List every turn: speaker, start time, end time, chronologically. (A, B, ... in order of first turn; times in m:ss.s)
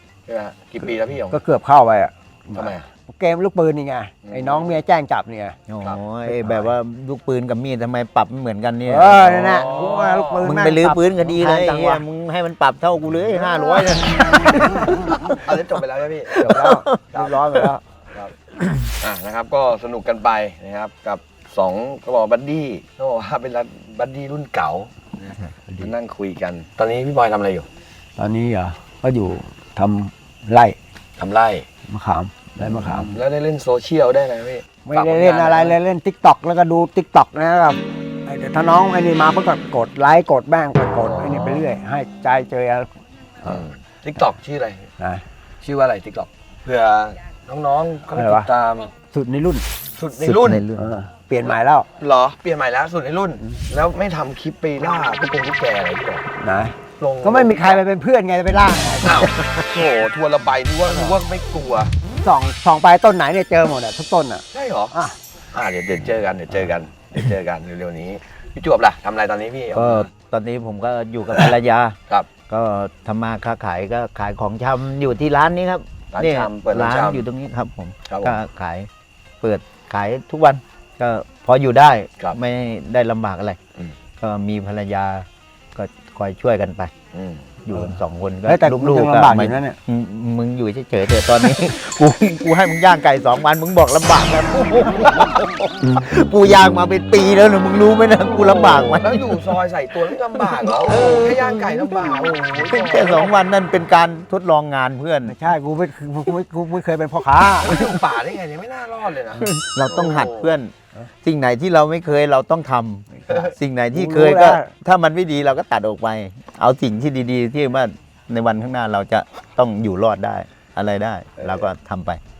0:00.3-0:01.4 A
0:01.3-0:05.6 B
0:02.5-0:02.8 A
0:04.2-0:04.8 A
0:05.7-0:09.7 C
0:06.3-0:06.6 B
0:08.8-0:12.0 B
0:09.2-0:10.6 A
0:10.4-0:15.2 C
0:15.3-0:16.6 A
0:16.4-0:17.8 B
0:16.5-0:17.0 C
0:19.0-0:27.7 A
0:28.2-0:30.8 B
0:31.2-0:31.7 A
0:31.9-0:33.1 B
0:32.6-0:35.8 A
0:34.8-0:42.9 B
0:41.0-0:41.6 A
0:43.4-0:43.7 B
0:43.4-0:44.9 A
0:45.6-0:48.9 A
0:48.1-0:48.5 B
0:49.1-0:49.6 B
0:49.9-0:50.6 A
0:50.2-0:50.9 C
0:50.8-0:51.9 B
0:51.4-0:56.2 A
0:56.4-0:59.5 B
0:57.0-0:57.8 A
0:59.0-1:01.9 A
1:02.2-1:05.2 B
1:04.5-1:04.9 A
1:05.5-1:10.1 A
1:09.7-1:12.0 C
1:09.8-1:10.1 B
1:12.5-1:18.9 C
1:16.1-1:17.3 A
1:18.1-1:18.4 A
1:19.4-1:23.6 C
1:24.2-1:26.9 C
1:27.1-1:27.4 A
1:27.6-1:39.2 C
1:28.4-1:29.8 B
1:38.3-1:43.3 A
1:40.9-1:41.4 C
1:42.6-1:45.4 C
1:45.2-1:47.8 B
1:47.6-1:50.5 A
1:49.4-1:50.7 C
1:51.2-2:02.2 C
1:53.3-1:54.7 B